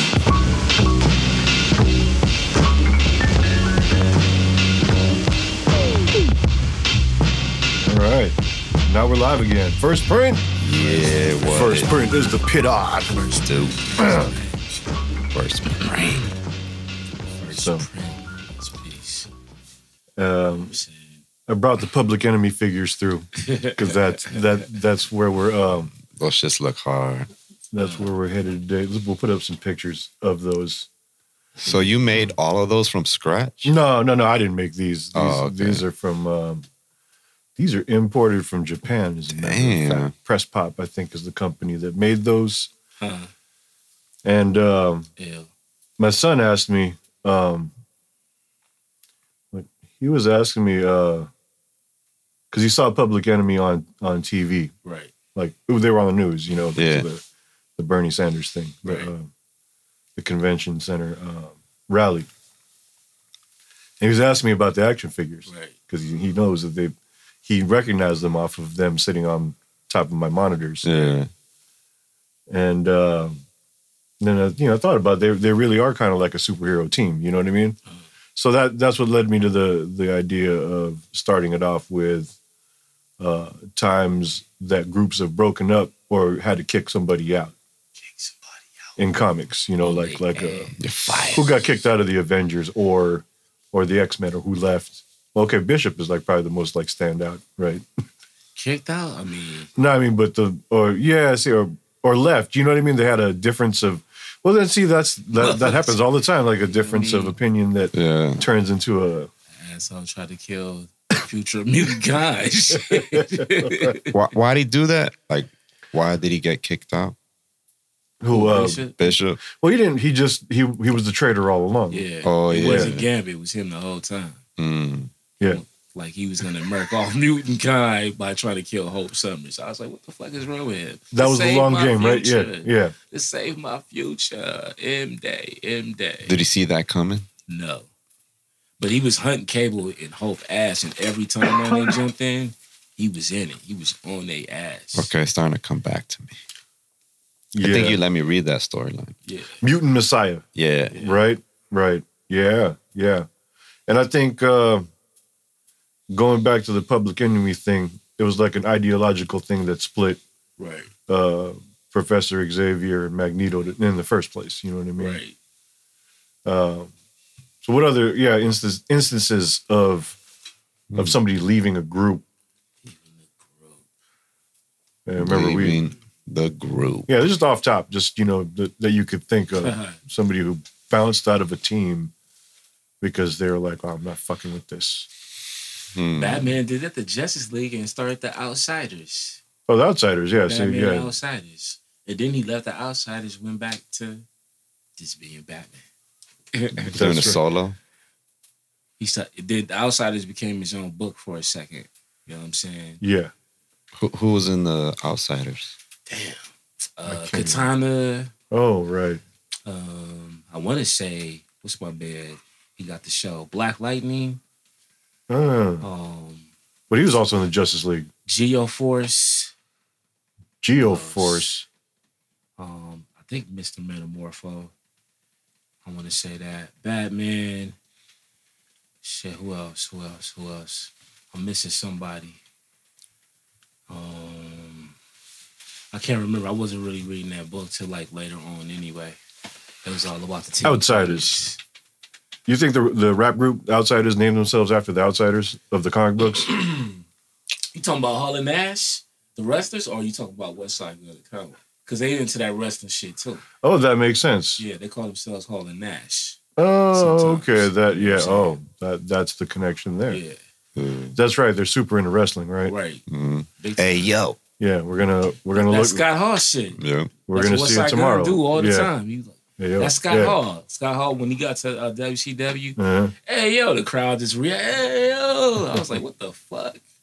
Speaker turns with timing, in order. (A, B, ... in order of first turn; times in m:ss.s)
0:07.8-0:10.5 A
0:10.6-0:11.9 B
0:10.7-0:12.3 C
0:11.5-0:13.3 A
0:13.1-0:14.9 C
0:13.4-0:13.8 B
0:14.0-0:14.3 A
0:15.3-0:16.3 B
0:15.7-0:16.3 C
0:17.4-0:19.3 C
0:17.5-0:17.9 A
0:20.2-0:20.8 A
0:20.5-0:21.2 C
0:21.5-0:25.9 A
0:23.4-0:24.4 C
0:26.1-0:27.3 B
0:27.7-0:30.9 A
0:27.8-0:28.1 C
0:31.6-0:32.3 C
0:31.6-0:33.7 B
0:33.6-0:36.6 A
0:35.1-0:35.8 B
0:37.6-0:42.7 A
0:39.3-0:40.1 B
0:43.0-0:43.3 C
0:44.2-0:45.1 A
0:45.2-0:45.5 C
0:46.0-0:47.7 A
0:49.5-0:51.3 A
0:52.5-0:54.7 A
0:54.8-0:55.1 C
0:55.4-0:57.2 A
0:56.8-0:57.1 B
0:57.8-0:59.3 A
0:58.8-0:59.1 C
1:00.2-1:02.3 A
1:04.0-1:06.9 A
1:05.5-1:05.7 C
1:07.4-1:10.9 A
1:10.8-1:11.3 B
1:12.5-1:13.4 A
1:14.2-1:17.8 A
1:18.4-1:22.4 A
1:23.2-1:27.6 A
1:28.0-1:28.7 C
1:29.0-1:30.7 A
1:29.8-1:31.4 C
1:30.8-1:31.5 B
1:31.3-1:37.8 A
1:38.6-1:39.7 C
1:39.8-1:49.3 A
1:45.4-1:46.0 C
1:46.7-1:47.4 C
1:47.9-1:48.4 B
1:49.6-1:54.2 C
1:52.9-1:53.9 A
1:54.1-1:57.2 B
1:58.2-1:58.9 A
1:58.3-1:59.0 C
1:58.6-1:59.4 B
1:59.4-2:02.1 A
2:01.9-2:04.4 C
2:02.2-2:03.1 B
2:02.6-2:02.9 A
2:04.6-2:05.1 B
2:05.4-2:16.4 C
2:11.1-2:12.9 A
2:16.3-2:17.3 B
2:17.5-2:17.9 C
2:18.8-2:25.1 C
2:25.0-2:26.4 B
2:27.5-2:28.0 A
2:27.6-2:29.2 B
2:29.3-2:29.6 C
2:29.6-2:33.3 A
2:30.6-2:31.0 B
2:30.9-2:31.2 C
2:33.9-2:34.9 A
2:36.1-2:40.2 A
2:40.6-2:40.9 C
2:41.1-2:45.2 A
2:45.0-2:45.4 C
2:46.4-2:46.9 A
2:47.6-2:50.2 A
2:50.9-2:51.2 B
2:51.0-2:52.2 A
2:52.8-2:53.8 C
2:55.1-2:55.8 A
2:55.2-2:57.1 B
2:57.1-3:02.1 A
2:59.6-3:00.0 C
3:03.0-3:05.1 A
3:06.0-3:06.6 B
3:06.1-3:09.4 C
3:09.7-3:11.1 A
3:10.5-3:14.3 C
3:15.0-3:15.8 C
3:16.5-3:17.3 C
3:16.8-3:17.8 B
3:16.9-3:17.4 A
3:19.0-3:23.0 C
3:23.0-3:23.3 A
3:24.0-3:25.8 B
3:26.1-3:28.3 C
3:27.1-3:27.7 A
3:28.5-3:29.2 A
3:29.7-3:34.4 C
3:35.3-3:35.9 A
3:35.8-3:36.5 C
3:36.9-3:38.1 A
3:38.3-3:39.5 C
3:40.6-3:41.7 A
3:40.8-3:41.5 C
3:42.6-3:44.7 C
3:45.8-3:47.8 C
3:49.0-3:52.4 C
3:53.9-3:54.9 C
3:55.9-3:59.2 C
3:59.8-4:01.6 C
4:00.6-4:01.4 A
4:02.5-4:06.5 A
4:06.3-4:07.0 C
4:07.7-4:13.4 C
4:13.6-4:14.6 A
4:14.6-4:16.4 C
4:16.6-4:20.2 A
4:16.9-4:18.6 C
4:20.1-4:20.4 C
4:20.8-4:21.2 B
4:21.2-4:22.7 A
4:22.7-4:23.0 C
4:23.1-4:24.4 B
4:23.6-4:24.1 C
4:24.6-4:26.0 A
4:25.5-4:26.8 C
4:26.8-4:27.1 B
4:27.3-4:28.9 A
4:27.3-4:36.8 C
4:29.6-4:30.4 A
4:32.8-4:33.1 A